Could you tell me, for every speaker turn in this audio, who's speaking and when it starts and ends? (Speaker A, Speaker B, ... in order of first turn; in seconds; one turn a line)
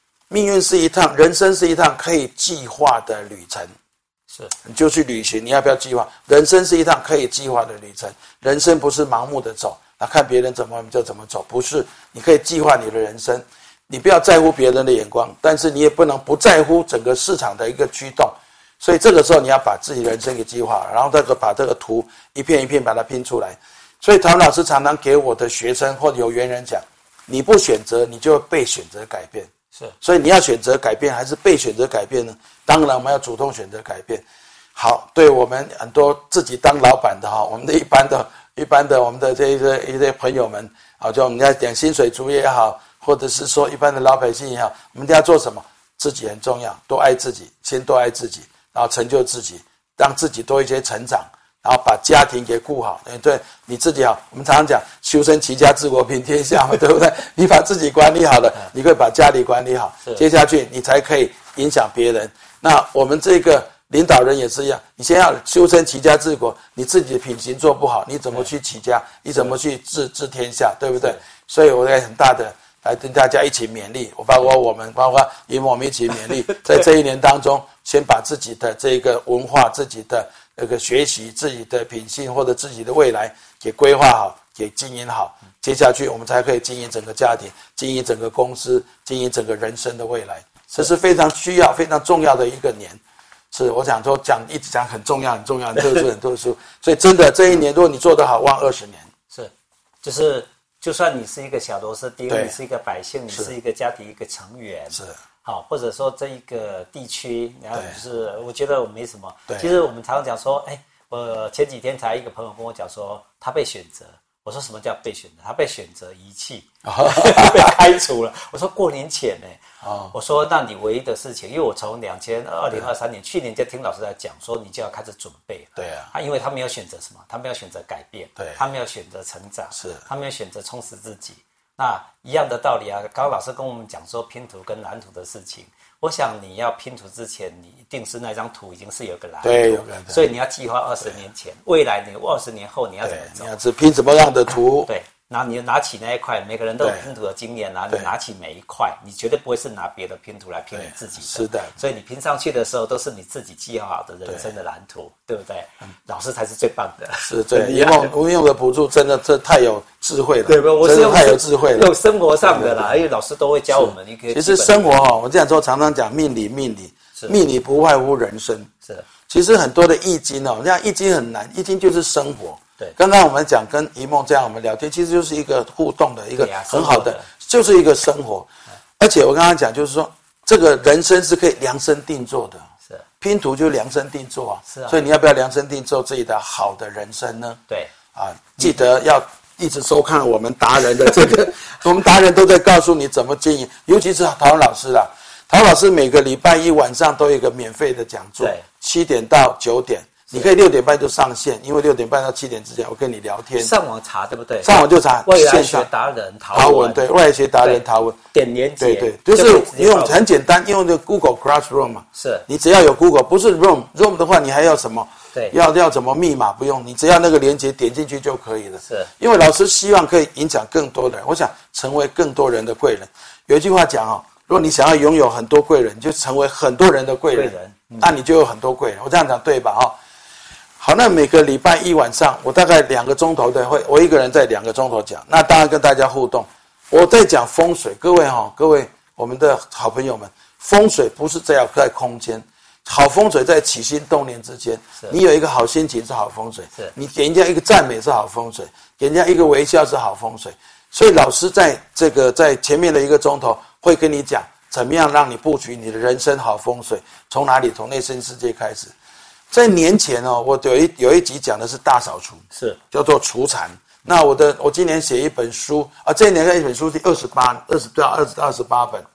Speaker A: 0.3-3.7
Speaker A: 4.6-29.5
Speaker A: 30.0-34.2
Speaker A: 34.7-93.0
Speaker A: 93.5-99.1
Speaker B: 100.0-119.6
Speaker A: 102.3-102.5
Speaker A: 107.7-108.0
Speaker A: 109.5-109.7
Speaker A: 116.8-117.8
Speaker A: 119.8-120.1
Speaker B: 120.1-143.5
Speaker A: 125.8-126.1
Speaker A: 129.8-130.0
Speaker A: 139.4-140.3
Speaker A: 143.0-144.9
Speaker B: 144.8-158.1
Speaker A: 146.8-147.1
Speaker A: 150.7-151.8
Speaker A: 157.2-161.9
Speaker B: 160.4-165.1
Speaker A: 162.4-163.0
Speaker A: 163.7-168.7
Speaker A: 169.3-178.5
Speaker B: 176.4-177.2
Speaker A: 179.0-182.6
Speaker A: 183.2-187.6
Speaker B: 184.7-185.0
Speaker A: 188.1-203.7
Speaker B: 198.4-198.6
Speaker B: 203.6-207.0
Speaker A: 204.6-205.9
Speaker A: 206.5-208.2
Speaker B: 207.6-210.2
Speaker A: 208.8-229.9
Speaker B: 212.1-212.4
Speaker B: 218.8-219.1
Speaker B: 227.3-228.1
Speaker A: 230.8-258.9
Speaker A: 259.5-269.1
Speaker B: 262.5-262.8